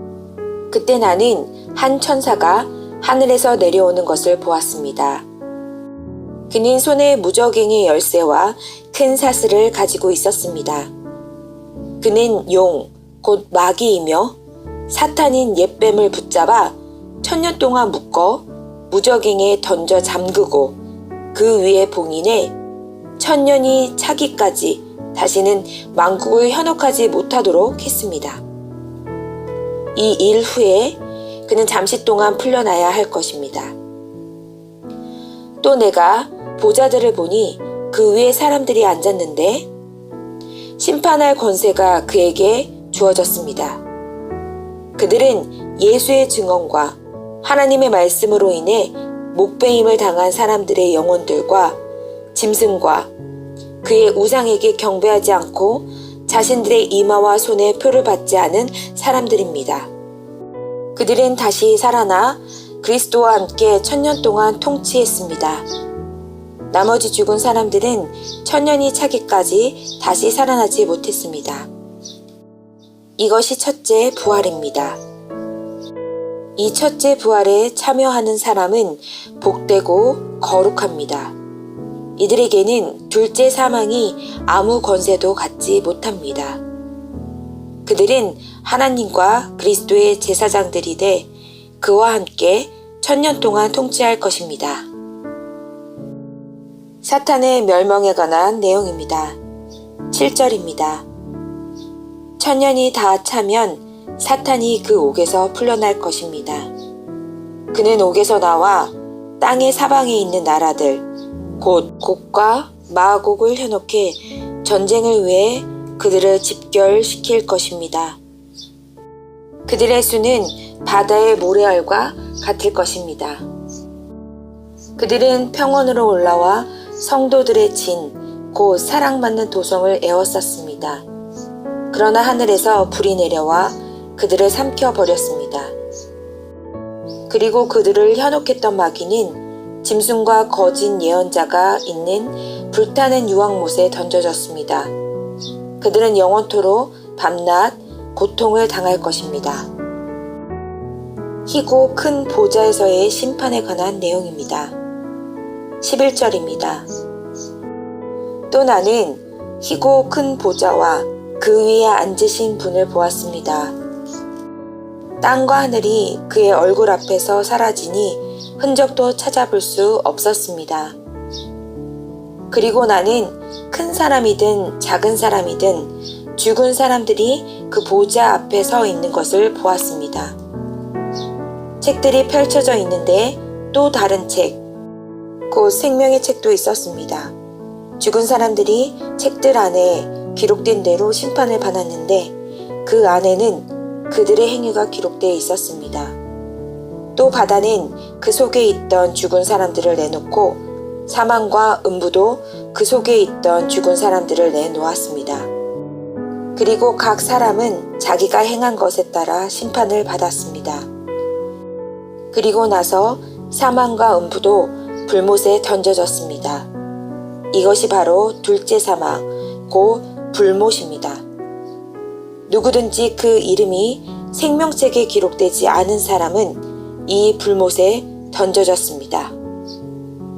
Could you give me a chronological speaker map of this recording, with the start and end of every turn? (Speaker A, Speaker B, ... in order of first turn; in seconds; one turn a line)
Speaker A: 0.7-5.2
Speaker A: 6.5-10.9
Speaker A: 12.0-14.4
Speaker A: 14.9-20.8
Speaker A: 21.3-22.5
Speaker A: 23.2-28.4
Speaker A: 29.9-33.8
Speaker A: 35.6-39.7
Speaker A: 40.8-43.8
Speaker A: 45.0-51.8
Speaker A: 52.3-53.1
Speaker A: 53.8-59.9
Speaker A: 61.0-65.7
Speaker A: 66.7-71.7
Speaker A: 73.2-75.0
Speaker A: 76.6-81.3
Speaker A: 82.2-86.6
Speaker A: 87.8-91.3
Speaker A: 91.8-94.9
Speaker A: 97.0-99.4
Speaker A: 100.1-101.1
Speaker A: 102.4-106.7
Speaker A: 107.7-111.0
Speaker A: 111.6-118.2
Speaker A: 119.7-123.4
Speaker A: 125.0-131.1
Speaker A: 131.9-135.7
Speaker A: 137.3-144.9
Speaker A: 145.8-149.7
Speaker A: 151.5-154.7
Speaker A: 155.8-156.9
Speaker A: 158.5-163.7
Speaker A: 165.2-171.0
Speaker A: 172.5-180.3
Speaker A: 181.8-184.6
Speaker A: 185.5-187.3
Speaker A: 188.0-192.3
Speaker A: 192.8-196.2
Speaker A: 197.2-205.5
Speaker A: 206.6-210.9
Speaker A: 212.3-216.7
Speaker A: 217.5-221.2
Speaker A: 222.5-229.3